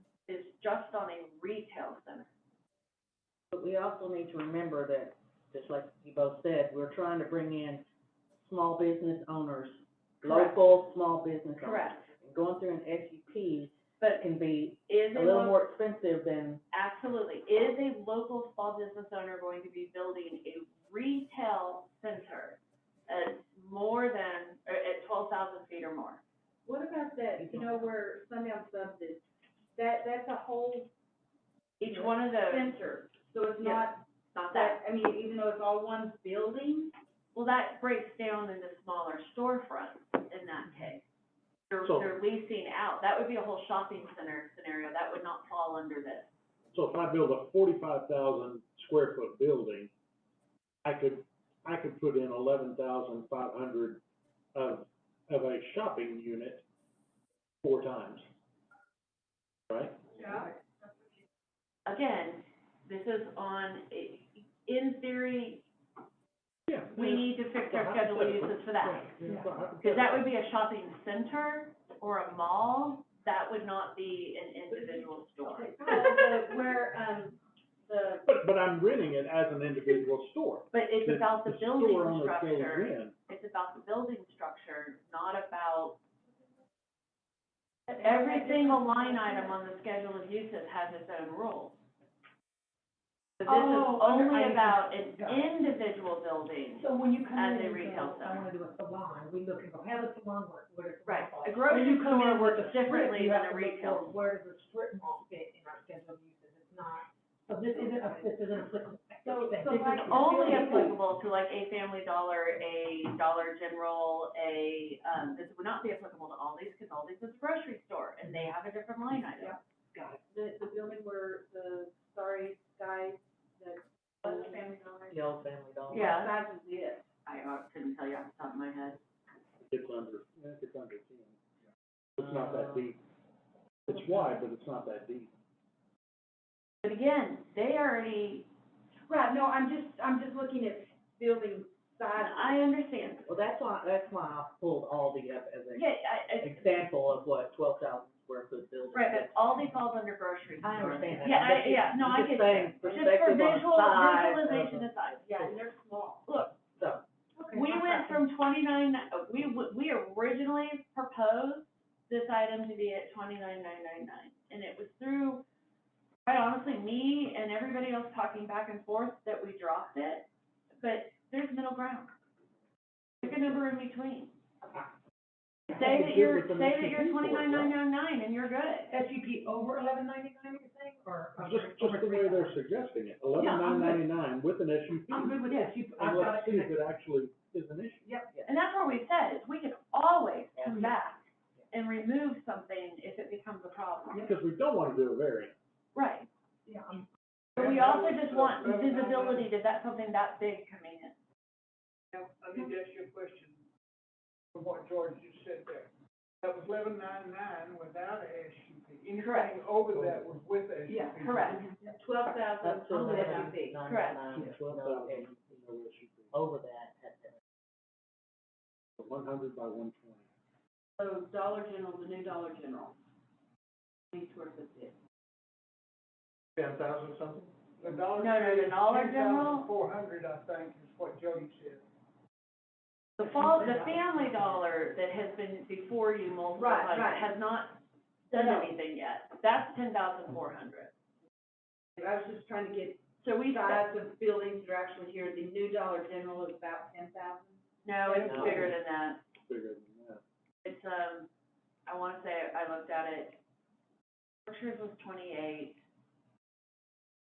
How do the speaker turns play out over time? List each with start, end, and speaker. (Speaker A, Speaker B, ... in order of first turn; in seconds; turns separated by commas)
Speaker A: 0.3-2.3, Speaker B: 3.5-7.8, Speaker B: 8.4-16.6, Speaker A: 10.2-10.6, Speaker A: 11.6-12.0, Speaker A: 14.0-14.2, Speaker A: 14.9-15.6, Speaker A: 16.7-26.2, Speaker C: 26.6-29.2, Speaker B: 27.4-27.8, Speaker C: 29.8-30.9, Speaker A: 31.8-32.7, Speaker C: 31.9-36.9, Speaker A: 33.6-34.8, Speaker A: 37.3-41.0, Speaker A: 41.7-46.3, Speaker D: 41.8-42.1, Speaker D: 46.7-49.9, Speaker D: 50.8-54.0, Speaker D: 54.5-56.6, Speaker D: 57.6-58.2, Speaker D: 59.7-60.0, Speaker A: 61.9-65.7, Speaker D: 66.7-70.2, Speaker A: 66.9-69.2, Speaker A: 69.8-75.8, Speaker C: 75.5-78.3, Speaker E: 75.7-76.3, Speaker D: 78.2-83.1, Speaker A: 80.7-86.0, Speaker A: 88.0-91.8, Speaker A: 93.4-98.5, Speaker E: 93.4-95.5, Speaker E: 96.8-110.9, Speaker A: 101.0-104.1, Speaker C: 109.2-111.0, Speaker A: 110.0-119.6, Speaker C: 119.4-125.1, Speaker B: 125.1-126.0, Speaker C: 125.9-127.0, Speaker A: 125.9-126.3, Speaker A: 127.2-129.0, Speaker D: 129.7-131.3, Speaker D: 132.2-133.0, Speaker D: 133.8-135.3, Speaker A: 136.8-138.5, Speaker C: 139.1-142.5, Speaker A: 142.2-143.3, Speaker B: 143.3-145.8, Speaker A: 145.7-146.8, Speaker B: 146.4-149.5, Speaker A: 148.9-155.4, Speaker C: 150.6-151.2, Speaker B: 150.8-154.9, Speaker C: 155.2-156.2, Speaker A: 156.3-156.6, Speaker B: 156.8-157.0, Speaker E: 157.4-158.2, Speaker A: 157.5-165.4, Speaker A: 166.2-170.3, Speaker A: 170.8-172.1, Speaker A: 173.2-174.3, Speaker A: 175.7-178.9, Speaker D: 175.7-177.7, Speaker E: 178.9-182.6, Speaker D: 181.4-185.4, Speaker E: 183.3-184.0, Speaker E: 185.1-186.8, Speaker A: 185.5-185.7, Speaker D: 185.9-188.0, Speaker E: 188.0-188.3, Speaker A: 188.5-194.3, Speaker D: 194.2-195.5, Speaker A: 195.9-196.3, Speaker E: 196.7-197.1, Speaker F: 197.6-199.5, Speaker A: 197.6-201.2, Speaker F: 202.1-203.6, Speaker F: 204.5-205.9, Speaker F: 206.4-211.6, Speaker A: 209.1-209.6, Speaker D: 209.9-210.2, Speaker E: 210.9-211.9, Speaker A: 211.2-211.7, Speaker C: 211.9-213.8, Speaker B: 212.6-215.5, Speaker E: 213.0-213.4, Speaker A: 213.8-214.2, Speaker D: 214.3-216.3, Speaker B: 216.3-217.4, Speaker D: 219.0-220.3, Speaker C: 221.0-222.9, Speaker C: 224.1-224.9, Speaker F: 226.6-231.8, Speaker A: 228.2-229.7, Speaker A: 233.2-240.9, Speaker C: 236.6-237.3, Speaker C: 238.3-238.7, Speaker C: 242.0-248.6, Speaker A: 243.5-243.8, Speaker A: 247.8-249.2, Speaker D: 248.2-248.8, Speaker D: 249.4-250.2, Speaker A: 250.6-251.3, Speaker A: 251.8-253.4, Speaker A: 254.4-255.8